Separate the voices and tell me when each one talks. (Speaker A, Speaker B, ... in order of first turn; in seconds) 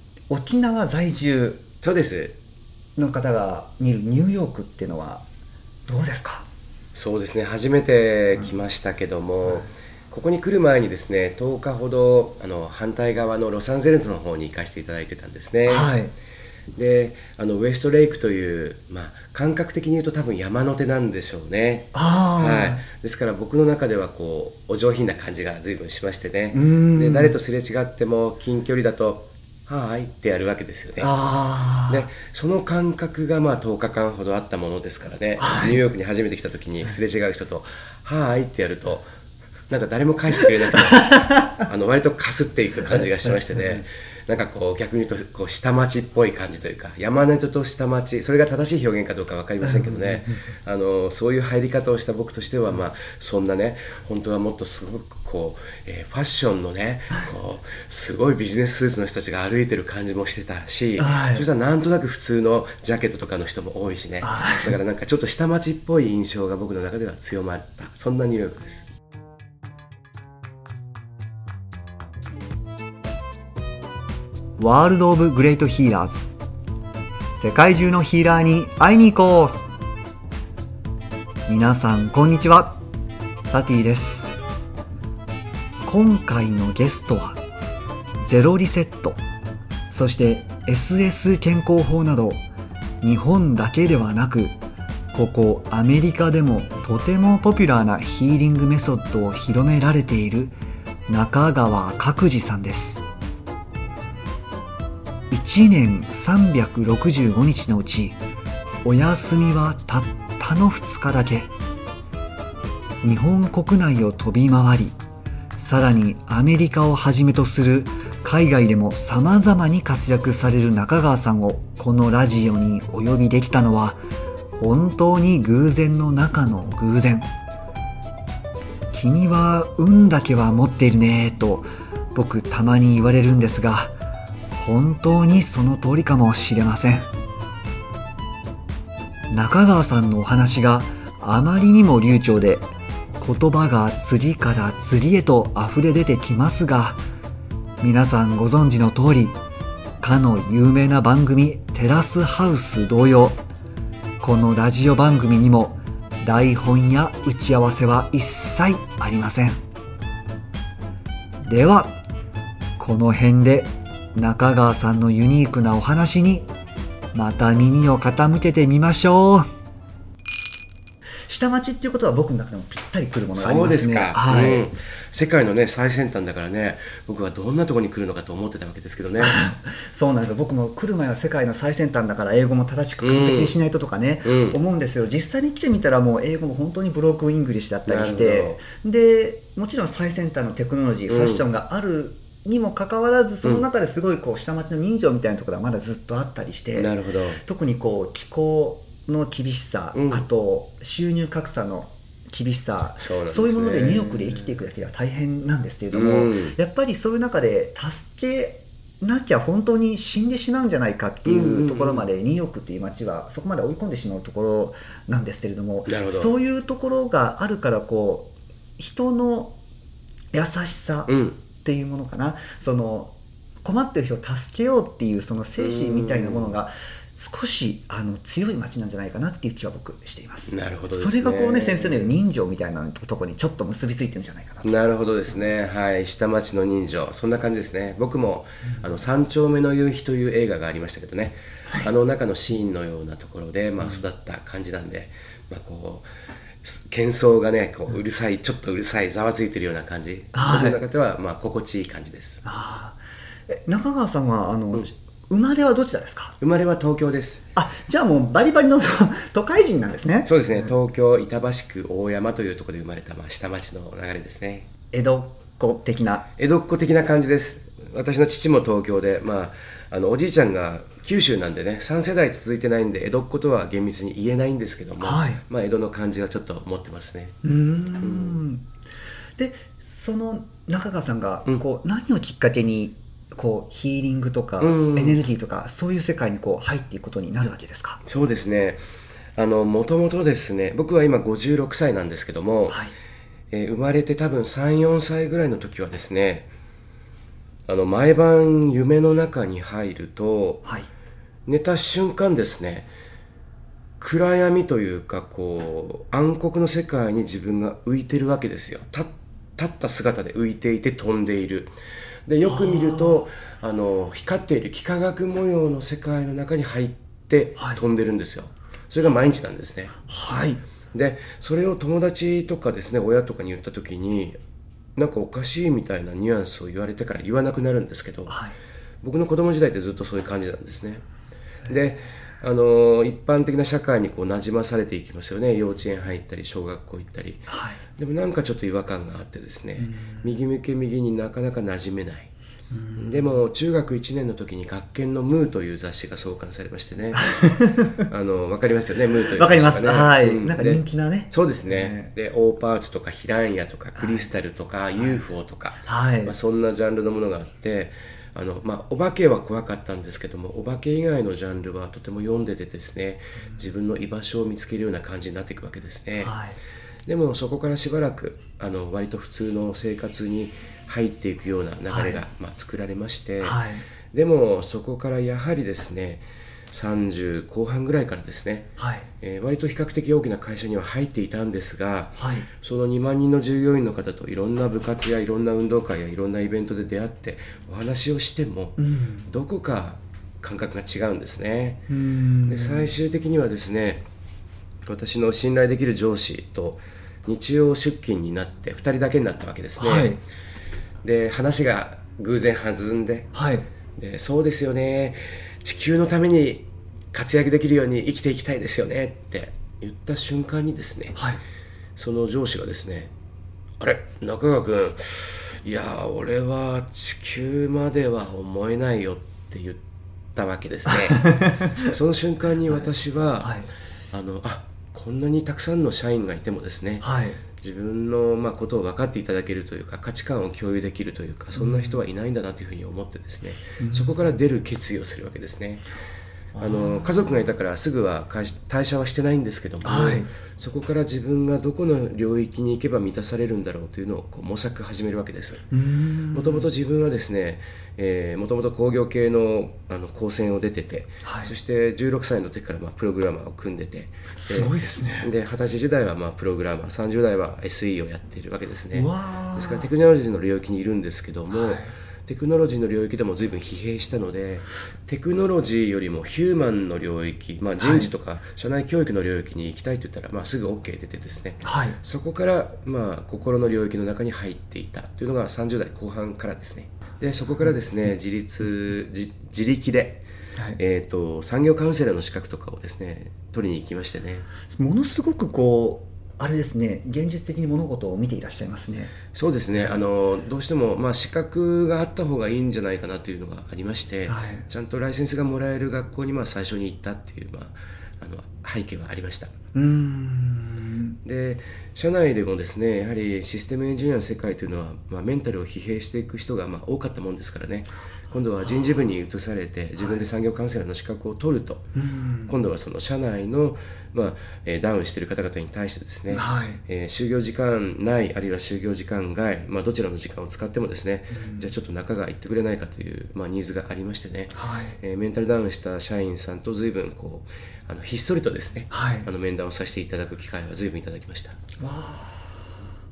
Speaker A: 0.3-1.6, 3.0-5.2, 5.9-6.5, 15.7-16.1, 21.9-22.8, 26.5-27.3, 31.0-32.1, 35.4-35.8, 43.5-43.8, 49.6-50.5, 61.0-61.5, 64.2-64.8, 74.6-76.3, 77.3-79.6, 81.5-82.8, 83.4-84.4, 85.8-87.4, 88.2-89.2, 89.9-92.4, 93.0-94.5, 95.1-100.5, 101.1-103.0, 105.3-108.2, 108.8-111.5, 113.0-115.0, 115.6-124.0, 124.6-127.3, 128.9-133.9, 134.5-137.1, 139.3-142.7, 143.2-147.0, 147.8-149.4, 150.0-153.4, 154.2-159.6, 161.4-162.0, 162.8-166.5, 167.1-169.5, 171.3-174.7, 179.2-196.9, 197.4-219.6, 220.3-234.8, 250.3-250.8, 252.4-256.4, 257.6-260.7, 264.9-266.3, 275.0-275.4, 277.4-278.6, 279.4-288.0, 300.6-300.9, 312.4-313.2, 320.1-320.6, 328.3-328.5, 337.5-337.8, 339.8-340.3, 342.7-343.3, 347.2-348.0, 349.3-352.1, 354.0-354.3, 355.9-356.3, 366.2-366.6, 371.9-372.2, 373.4-373.8, 378.8-379.1, 382.2-382.5, 388.8-389.3, 391.9-392.9, 399.8-400.2, 403.3-403.6, 411.1-411.4, 420.9-421.9, 423.4-423.7, 427.0-427.4, 431.6-432.0, 433.8-434.2, 436.5-437.4, 439.8-440.3, 445.7-446.7, 451.2-451.5, 454.4-455.3, 458.9-459.9, 461.5-461.9, 467.8-468.1, 471.6-472.0, 484.7-489.1, 494.3-494.6, 499.7-501.1, 508.6-508.9, 510.0-510.2, 511.9-512.5, 516.3-516.8, 521.3-521.7, 524.5-525.0, 528.9-529.3, 531.8-532.6
Speaker B: 1.8-2.4, 6.9-15.9, 16.7-31.1, 31.9-39.0, 39.7-68.8, 173.3-179.4, 183.0-183.6, 184.2-184.6, 187.8-188.6, 191.1-191.4, 196.7-197.4, 199.9-200.2, 203.0-204.6, 205.9-206.6, 211.2-212.1, 215.8-216.3, 221.1-221.4, 225.6-226.5, 230.5-232.1, 234.6-246.1, 246.6-252.4, 256.4-257.4, 260.2-264.7, 266.4-277.4, 278.0-278.4, 284.6-285.2, 288.0-288.8, 289.4-292.8, 293.5-296.5, 297.6-300.6, 301.5-302.9, 304.0-311.7, 312.3-320.0, 320.9-324.4, 324.9-328.4, 329.0-331.0, 331.7-342.3, 343.0-366.4, 367.1-378.7, 379.2-391.8, 392.5-394.0, 394.9-400.2, 401.0-403.3, 404.0-411.2, 412.0-413.1, 413.8-419.8, 420.3-423.6, 424.1-427.1, 427.6-435.8, 436.6-445.6, 446.3-484.4, 489.3-499.5, 501.2-511.9, 512.5-531.6